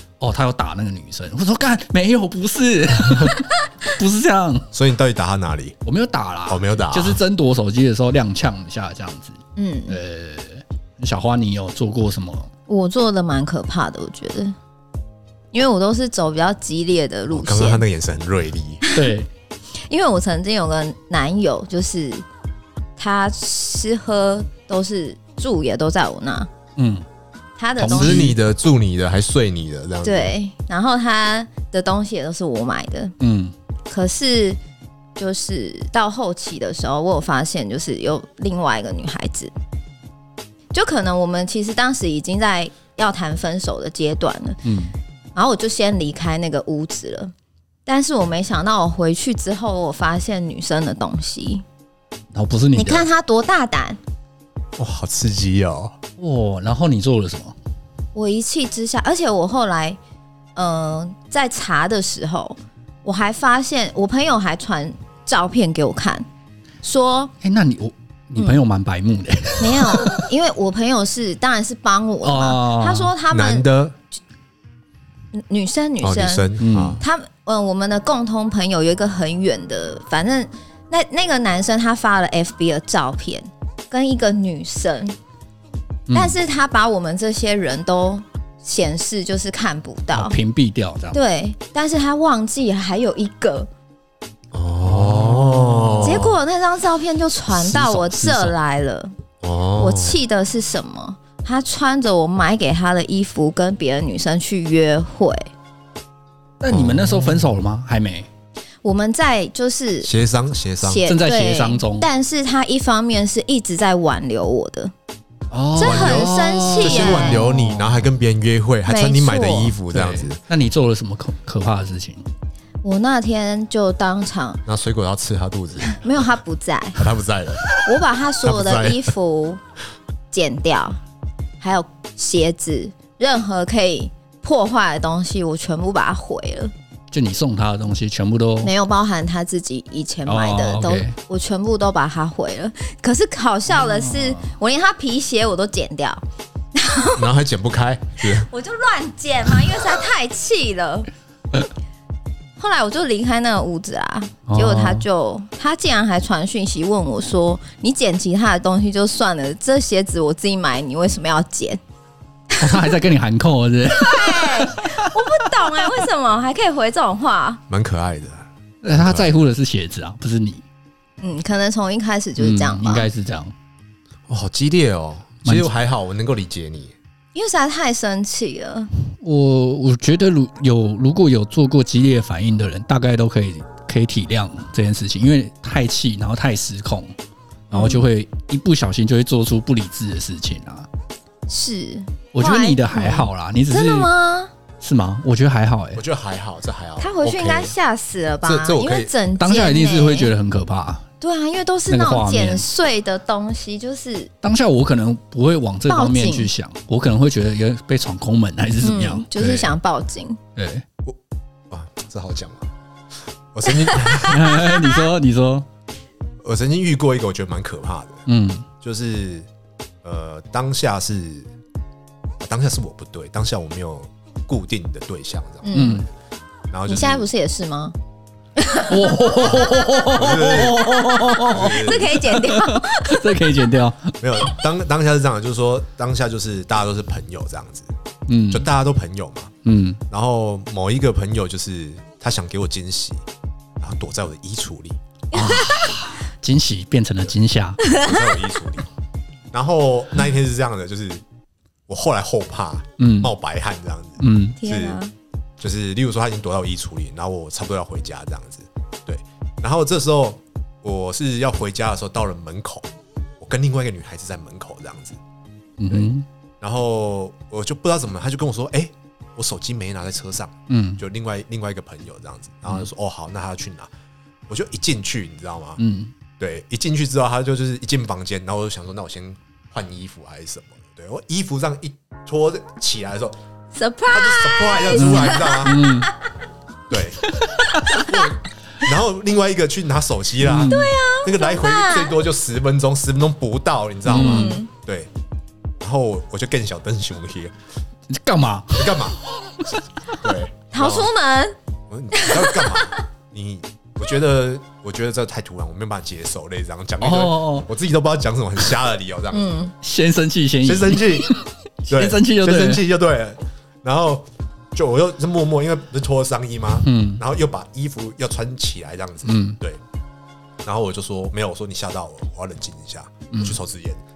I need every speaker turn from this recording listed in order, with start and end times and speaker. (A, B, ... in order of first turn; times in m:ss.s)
0:00.2-0:04.7 A
0:04.7-0:05.8 B
0:05.8-0:12.5 A
0:06.5-0:07.2 B
0:09.6-0:10.0 C
0:12.7-0:14.6 C
0:15.5-0:17.8 C
0:17.3-0:18.8 B
0:18.8-0:19.1 C
0:19.0-0:19.3 A
0:19.9-0:22.3 C
0:23.0-0:26.5 C
0:26.8-0:27.0 A
0:27.6-0:28.3 C
0:27.8-0:28.4 A
0:27.9-0:30.3 B
0:30.0-0:33.1 C
0:33.2-0:33.5 A
0:33.9-0:34.6 C
0:35.2-0:39.5 C
0:40.7-0:44.6 C
0:44.6-0:44.9 A
0:45.4-0:47.3 C
0:47.9-0:51.6 C
0:52.3-0:53.1 A
0:52.8-0:54.0 C
0:54.8-0:56.0 B
0:56.2-0:57.6 A
0:58.2-1:00.0 C
1:00.6-1:06.3 C
1:06.8-1:07.3 C
1:07.4-1:10.2 A
1:09.6-1:13.7 C
1:12.2-1:13.1 A
1:13.3-1:14.0 B
1:15.3-1:16.5 C
1:16.0-1:17.0 B
1:16.6-1:17.0 A
1:17.0-1:25.2 C
1:26.1-1:26.4 A
1:26.1-1:30.4 C
1:30.1-1:31.2 A
1:31.1-1:33.7 C
1:34.5-1:36.4 B
1:34.8-1:36.3 A
1:36.0-1:39.1 C
1:37.5-1:38.6 A
1:39.4-1:40.2 B
1:39.8-1:45.5 C
1:46.6-1:48.3 A
1:46.7-1:47.5 B
1:48.8-1:50.1 C
1:50.0-1:51.0 B
1:50.8-1:54.9 C
1:51.1-1:52.1 A
1:55.5-1:58.0 A
1:55.8-1:57.4 C
1:55.8-2:00.4 B
1:58.9-1:59.8 C
1:59.9-2:02.2 A
2:02.8-2:04.6 C
2:04.7-2:06.0 B
2:05.8-2:07.0 C
2:07.0-2:07.7 B
2:07.8-2:09.6 C
2:08.4-2:09.1 B
2:10.3-2:11.0 C
2:11.6-2:16.7 C
2:17.1-2:18.7 A
2:18.6-2:26.2 C
2:20.3-2:21.2 A
2:23.7-2:24.5 A
2:26.7-2:27.3 C
2:27.2-2:28.5 B
2:28.3-2:31.1 C
2:32.6-2:41.8 C
2:34.5-2:35.0 A
2:42.5-2:42.8 C
2:42.6-2:45.0 A
2:43.9-2:47.6 C
2:47.7-2:49.3 B
2:48.8-2:50.6 A
2:51.2-2:53.1 C
2:52.4-2:53.5 A
2:54.3-2:56.9 B
2:55.4-2:55.7 A
2:57.4-2:58.9 C
2:59.2-3:07.1 A
3:07.7-3:08.0 C
3:07.7-3:10.9 A
3:11.5-3:14.5 C
3:12.3-3:14.1 A
3:14.8-3:16.0 A
3:16.0-3:17.8 B
3:17.0-3:20.3 C
3:18.4-3:19.1 B
3:19.4-3:21.1 A
3:21.2-3:24.3 C
3:21.9-3:22.6 A
3:24.4-3:29.7 A
3:25.9-3:26.5 C
3:28.8-3:30.4 C
3:30.6-3:30.8 A
3:31.7-3:32.7 B
3:33.5-3:34.5 B
3:33.7-3:35.0 C
3:34.2-3:35.7 A
3:36.4-3:38.2 B
3:38.3-3:38.7 A
3:38.8-3:39.5 B
3:40.0-3:41.5 B
3:42.4-3:46.0 B
3:45.6-3:46.0 C
3:45.7-3:46.1 A
3:46.7-3:47.3 B
3:46.9-3:48.0 C
3:48.6-3:53.4 C
3:48.9-3:54.6 A
3:50.1-3:52.2 B
3:54.2-3:57.9 B
3:58.3-3:58.7 A
3:58.5-3:59.5 B
3:59.6-4:00.0 A
4:00.1-4:03.2 B
4:03.8-4:05.0 B
4:05.3-4:06.0 C
4:05.3-4:07.8 A
4:07.8-4:08.2 C
4:08.0-4:08.9 B
4:09.5-4:11.2 B
4:11.9-4:15.0 B
4:13.0-4:13.3 A
4:14.2-4:14.6 A
4:14.6-4:15.1 C
4:15.6-4:22.9 B
4:23.4-4:25.2 B
4:25.8-4:26.3 A
4:26.6-4:33.9 B
4:30.7-4:31.0 A
4:34.5-4:35.8 B
4:35.8-4:36.1 A
4:36.4-4:43.4 B
4:43.7-4:46.2 C
4:44.1-4:45.8 B
4:44.9-4:46.1 A
4:46.9-4:47.4 B
4:47.4-4:48.1 A
4:47.6-4:48.1 C
4:47.9-4:55.1 B
4:50.4-4:50.9 A
4:50.7-4:52.2 C
4:54.1-4:54.6 A
4:54.1-4:54.7 C
4:55.8-4:57.6 B
4:58.1-4:59.2 A
4:58.8-4:59.2 B
5:00.2-5:01.1 B
5:00.7-5:01.6 C
5:01.9-5:09.7 B
5:02.1-5:03.0 C
5:07.0-5:07.7 A
5:09.3-5:09.7 C
5:09.8-5:12.8 A
5:10.6-5:11.3 B
5:11.9-5:19.8 B
5:16.8-5:17.2 A
5:19.2-5:19.6 A
5:20.6-5:24.0 B
5:23.3-5:23.6 A